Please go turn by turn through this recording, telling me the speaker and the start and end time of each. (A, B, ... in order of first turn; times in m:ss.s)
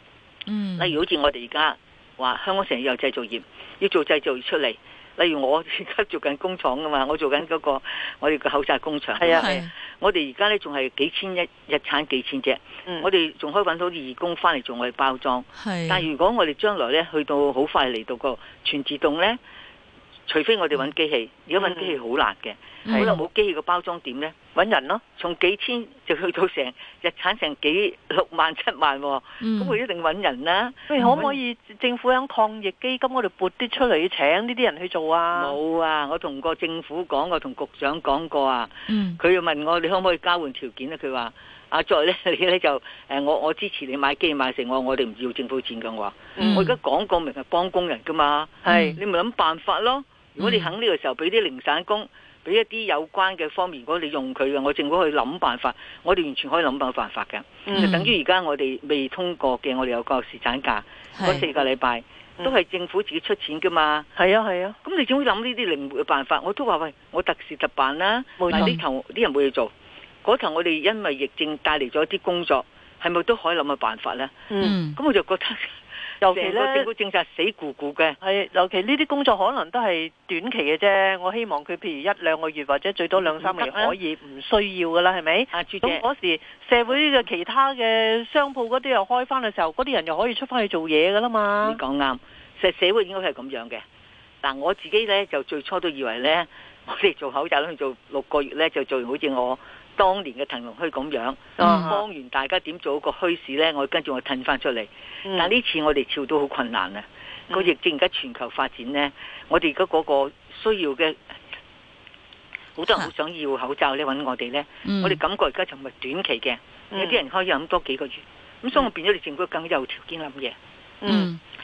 0:00.5-0:01.0 A
0:00.8-0:19.4 B
0:09.2-0:09.5 C
0:09.2-0:09.7 A
0:15.5-0:16.1 A
0:20.3-0:24.4 B
0:21.6-0:21.9 C
0:22.9-0:23.2 A
0:22.9-0:23.1 C
0:24.5-0:25.0 C
0:25.2-0:31.3 B
0:29.4-0:29.8 A
0:30.9-0:35.6 C
0:31.0-0:31.2 A
0:35.3-1:04.1 B
0:38.9-0:39.2 A
0:46.4-0:46.7 C
0:46.4-0:46.8 A
0:48.6-0:48.9 C
0:48.7-0:49.0 A
0:50.4-0:50.7 A
0:57.7-0:57.9 C
0:57.7-0:58.1 A
1:01.1-1:01.4 A
1:04.2-1:04.8 C
1:04.8-1:09.7 B
1:08.4-1:08.8 C
1:08.5-1:08.8 A
1:10.2-1:14.3 B
1:14.5-1:14.8 C
1:14.6-1:15.0 A
1:14.9-1:18.2 B
1:16.2-1:16.9 C
1:18.2-1:31.8 C
1:23.2-1:24.0 B
1:25.5-1:26.0 B
1:31.6-1:33.8 B
1:34.4-1:51.2 B
1:41.6-1:42.0 C
1:41.6-1:41.9 A
1:52.8-2:00.6 B
1:54.8-1:55.2 A
1:56.9-1:57.2 C
2:01.0-2:01.3 C
2:01.0-2:01.4 A